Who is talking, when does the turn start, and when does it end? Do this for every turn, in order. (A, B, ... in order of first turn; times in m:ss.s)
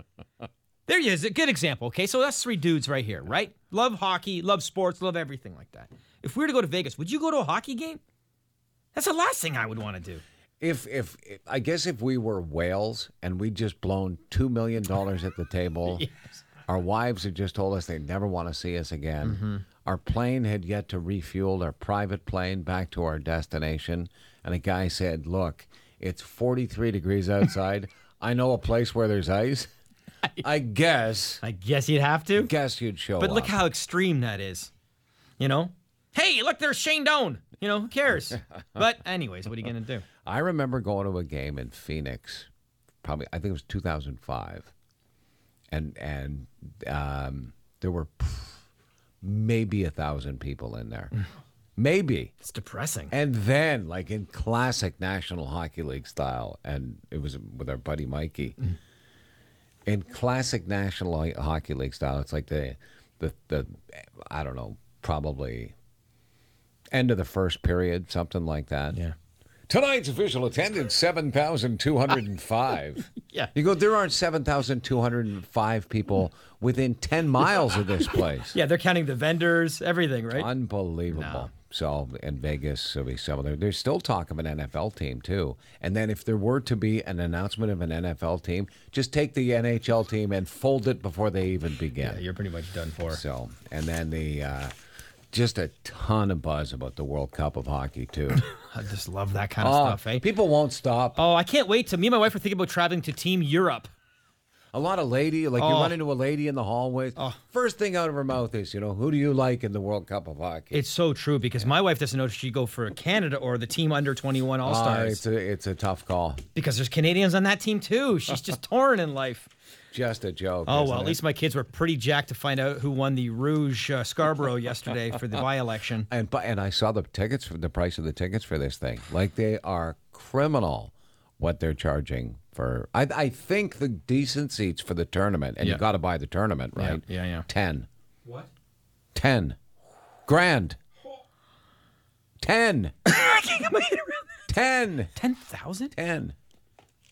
0:00.9-0:08.0 A
0:08.9-0:10.2 A
0:10.6-0:16.1 B
0:15.9-0:16.2 A
0:16.7-0:29.7 B
0:19.2-0:19.6 A
0:30.4-0:31.4 B
0:31.4-0:32.5 A
0:32.4-0:33.6 B
0:33.2-0:34.7 A
0:35.4-0:40.0 A
0:40.2-0:42.5 B
0:43.0-0:44.7 B
0:45.7-0:48.6 B
0:49.2-0:51.1 B
0:51.8-0:52.3 B
0:52.4-0:53.1 A
0:53.1-0:58.6 B
0:59.9-1:05.7 B
1:06.9-1:09.0 B
1:09.7-1:18.6 B
1:18.5-1:20.5 A
1:20.3-1:32.2 B
1:21.1-1:21.5 A
1:32.0-1:33.2 A
1:33.1-1:34.7 B
1:35.3-1:38.4 B
1:38.3-1:40.2 A
1:39.6-1:41.2 B
1:41.2-1:43.9 A
1:44.7-1:50.8 B
1:45.6-1:46.0 A
1:50.7-1:55.2 A
1:54.6-1:56.4 B
1:56.5-1:59.5 A
1:59.9-2:01.2 B
2:00.7-2:06.1 A
2:06.1-2:17.9 B
2:16.8-2:17.5 A
2:19.1-2:19.6 B
2:20.3-2:20.8 B
2:22.4-2:23.0 B
2:23.0-2:24.4 A
2:24.5-2:25.1 B
2:25.1-2:25.9 A
2:25.9-2:26.3 B